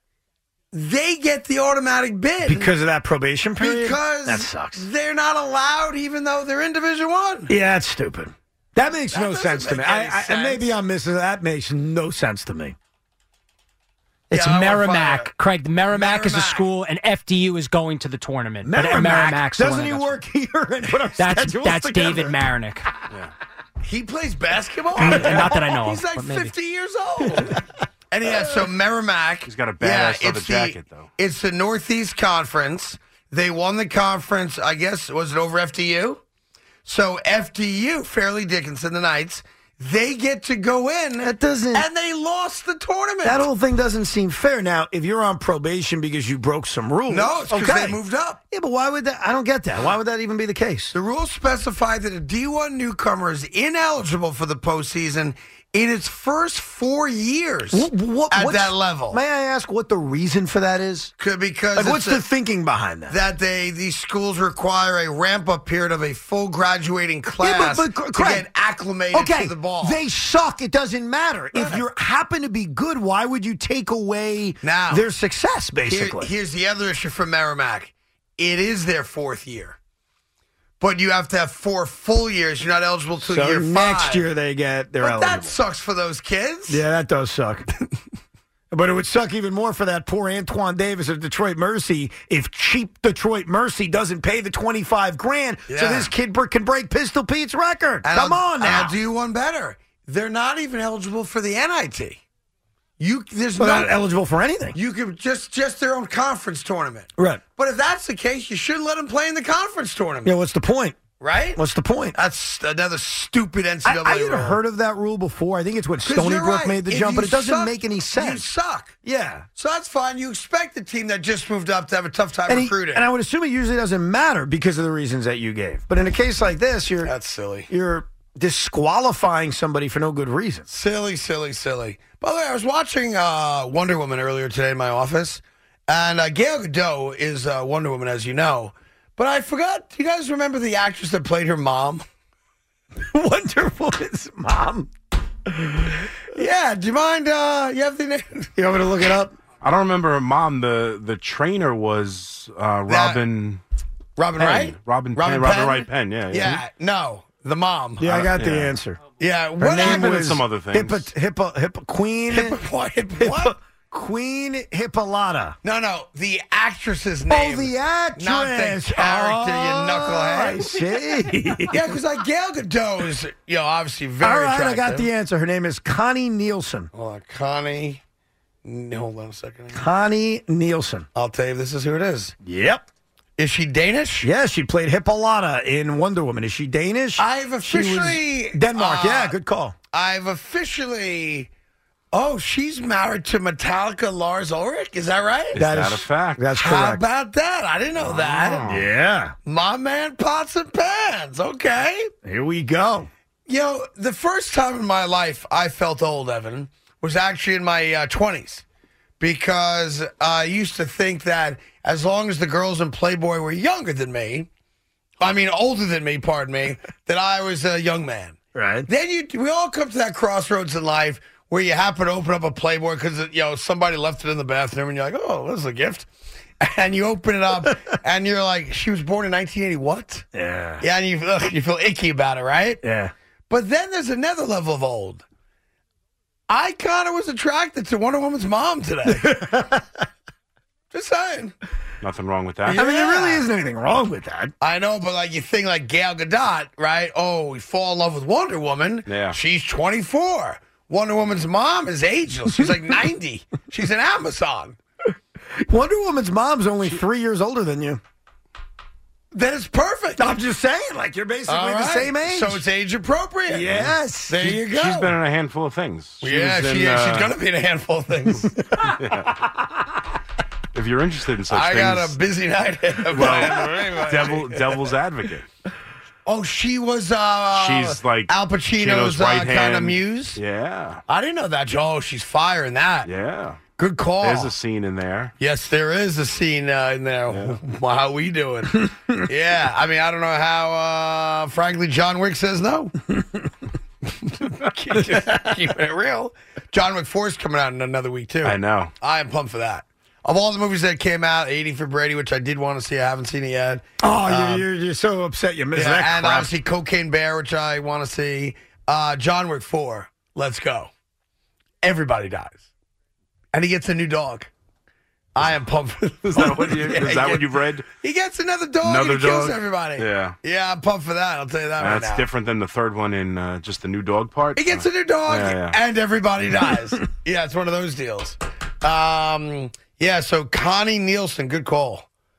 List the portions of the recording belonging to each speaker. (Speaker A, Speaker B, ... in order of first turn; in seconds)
Speaker A: 0.7-2.7, 3.6-7.5, 9.1-10.7, 14.3-15.3, 15.9-16.7, 23.8-36.2, 36.8-43.4, 47.1-48.4, 50.9-59.2, 61.2-62.2, 63.1-70.0, 71.5-71.8, 74.6-75.1, 75.8-79.8, 80.8-84.2, 85.0-86.8, 95.7-96.1, 98.0-102.2, 103.0-104.0, 104.7-110.3, 111.2-111.6, 112.1-114.6, 116.0-118.9, 119.5-123.0, 127.0-127.7, 130.7-142.0, 146.3-148.5, 152.9-153.2, 154.2-158.2, 159.2-160.2, 162.3-163.6, 165.6-170.8, 171.7-175.1, 176.9-178.0, 178.6-179.8, 181.1-182.3, 183.4-184.3, 187.2-189.4, 189.9-191.5, 192.1-195.6, 196.6-198.6, 199.4-202.1, 203.5-208.6, 209.2-214.5, 215.2-226.1, 226.6-230.3, 230.8-232.8, 233.5-235.2, 236.5-239.4, 240.9-241.5, 242.6-243.4, 244.6-254.8, 259.3-260.3, 261.5-265.1, 266.2-268.5, 271.5-274.6, 276.2-280.4, 281.1-283.1, 283.8-284.5, 285.4-292.9, 294.2-304.6, 305.7-310.9, 311.8-312.6, 313.5-314.5, 315.3-322.3, 324.6-332.1
Speaker B: 2.4-4.8, 7.5-12.8, 18.6-22.4, 25.0-25.7, 27.3-27.6, 41.2-41.9, 43.2-48.0, 48.5-50.9, 57.7-61.1, 61.7-63.2, 67.4-68.5, 69.1-76.3, 83.2-85.6, 86.7-87.7, 88.7-99.0, 103.6-104.8, 107.2-107.4, 110.2-111.0, 111.5-112.2, 113.8-118.5, 119.0-119.5, 122.5-127.1, 127.7-130.7, 143.0-144.9, 145.4-146.1, 148.6-149.3, 158.0-159.0, 159.6-162.6, 163.2-165.6, 167.3-171.9, 174.2-176.9, 179.7-181.1, 182.4-182.8, 184.2-189.7, 195.5-197.0, 198.7-199.3, 202.2-203.1, 218.5-218.9, 230.3-230.8, 232.8-233.1, 239.1-239.8, 242.7-244.5, 255.6-258.0, 260.2-262.6, 263.5-264.4, 268.7-269.0, 273.2-273.7, 304.0-306.5
Speaker C: 14.3-20.2, 21.1-22.9, 25.0-26.5
Speaker D: 29.4-31.1, 149.6-153.6, 154.4-156.6, 158.1-158.7, 159.7-161.1, 195.5-196.4, 198.0-198.8, 242.0-242.8, 249.1-249.4, 263.7-267.3, 268.9-269.4, 270.7-272.2, 273.1-275.4, 277.5-281.0, 283.1-283.6, 284.2-285.3, 287.3-287.6, 298.4-298.9, 316.2-317.9, 318.8-320.4, 321.8-325.8